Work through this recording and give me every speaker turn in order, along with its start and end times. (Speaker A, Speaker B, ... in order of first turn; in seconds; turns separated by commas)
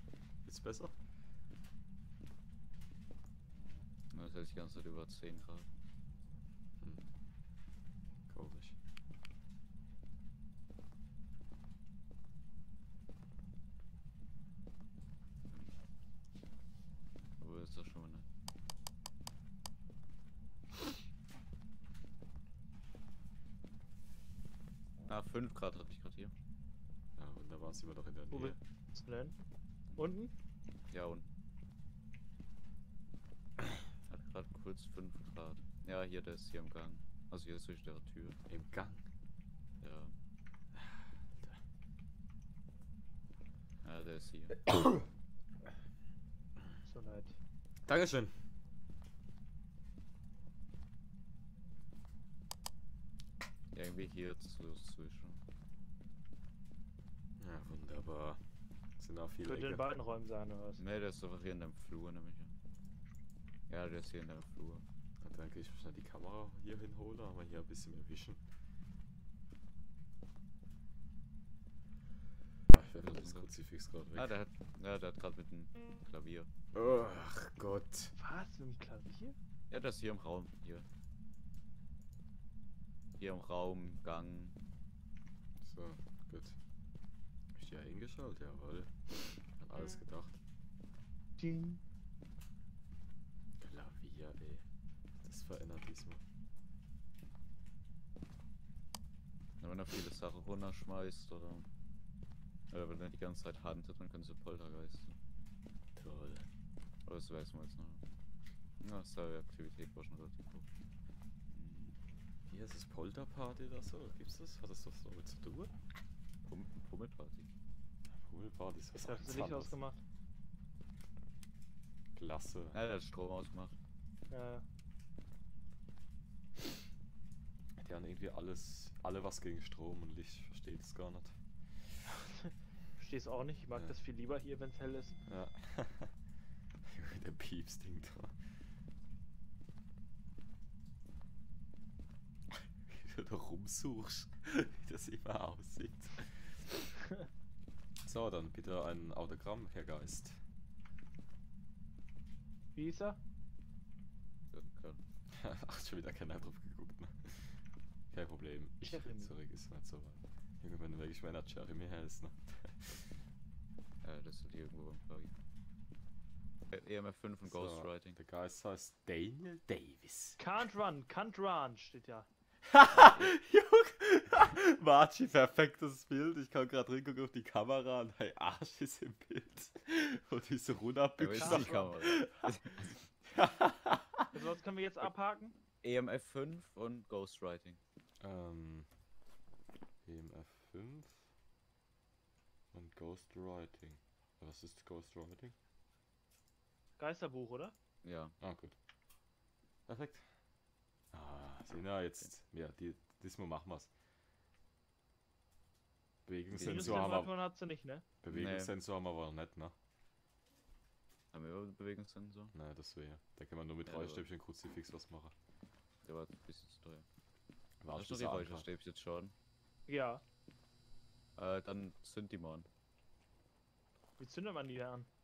Speaker A: 0.4-0.9, Speaker B: 4.1-5.7, Speaker A: 8.3-8.8, Speaker B: 17.4-18.2, Speaker B: 25.1-26.3, Speaker A: 27.2-28.6, Speaker C: 28.3-29.4, Speaker C: 30.0-30.3, Speaker B: 30.9-31.3, Speaker B: 34.0-38.4, Speaker A: 38.5-39.0, Speaker B: 39.8-40.1, Speaker A: 40.7-41.6, Speaker B: 43.8-44.6, Speaker C: 46.9-47.4, Speaker A: 47.8-48.3, Speaker B: 53.7-55.4, Speaker A: 57.4-58.4, Speaker A: 59.0-59.9, Speaker C: 59.5-60.8, Speaker B: 60.8-62.5, Speaker B: 63.7-64.8, Speaker A: 65.2-68.4, Speaker A: 72.7-74.4, Speaker B: 73.0-73.6, Speaker B: 74.1-76.5, Speaker A: 76.7-78.1, Speaker C: 78.2-79.3, Speaker B: 79.7-80.9, Speaker B: 83.2-84.5, Speaker A: 85.6-86.6, Speaker A: 87.5-90.4, Speaker C: 91.4-91.8, Speaker A: 93.6-94.6, Speaker A: 95.2-96.2, Speaker B: 99.6-101.7, Speaker B: 102.7-105.2, Speaker A: 106.0-106.5, Speaker B: 107.0-108.0, Speaker B: 108.8-110.6, Speaker B: 111.5-112.0, Speaker A: 112.5-115.7, Speaker B: 116.5-117.5, Speaker A: 118.1-119.7, Speaker C: 119.0-120.0, Speaker A: 122.1-122.8, Speaker B: 122.7-123.8, Speaker C: 124.3-124.6, Speaker A: 127.8-131.3, Speaker C: 132.1-135.2, Speaker A: 135.2-136.1, Speaker A: 136.9-138.3, Speaker A: 142.9-146.7, Speaker A: 148.0-150.4, Speaker C: 152.7-153.2, Speaker B: 154.5-155.0, Speaker A: 155.3-157.6, Speaker A: 158.1-163.2, Speaker C: 158.8-159.3, Speaker B: 164.0-165.3, Speaker B: 166.7-168.2, Speaker A: 167.4-170.4, Speaker C: 170.4-172.3, Speaker A: 172.7-184.3, Speaker B: 172.9-173.3, Speaker B: 181.2-183.0, Speaker C: 181.4-181.9, Speaker C: 184.3-185.5, Speaker B: 185.8-187.8, Speaker A: 188.2-188.9, Speaker A: 190.1-191.2, Speaker A: 192.7-195.5, Speaker C: 197.0-197.8, Speaker B: 198.0-198.3, Speaker A: 198.4-198.8, Speaker A: 199.9-200.3, Speaker A: 201.1-203.9, Speaker A: 206.2-207.3, Speaker B: 206.5-207.3, Speaker C: 206.6-208.0, Speaker A: 208.2-209.7, Speaker B: 208.3-208.7, Speaker B: 211.3-212.5, Speaker A: 212.5-215.3, Speaker B: 213.8-214.3, Speaker B: 216.0-217.0, Speaker A: 217.8-218.7, Speaker B: 217.9-219.3, Speaker C: 219.9-220.2, Speaker B: 221.4-222.7, Speaker C: 224.2-225.1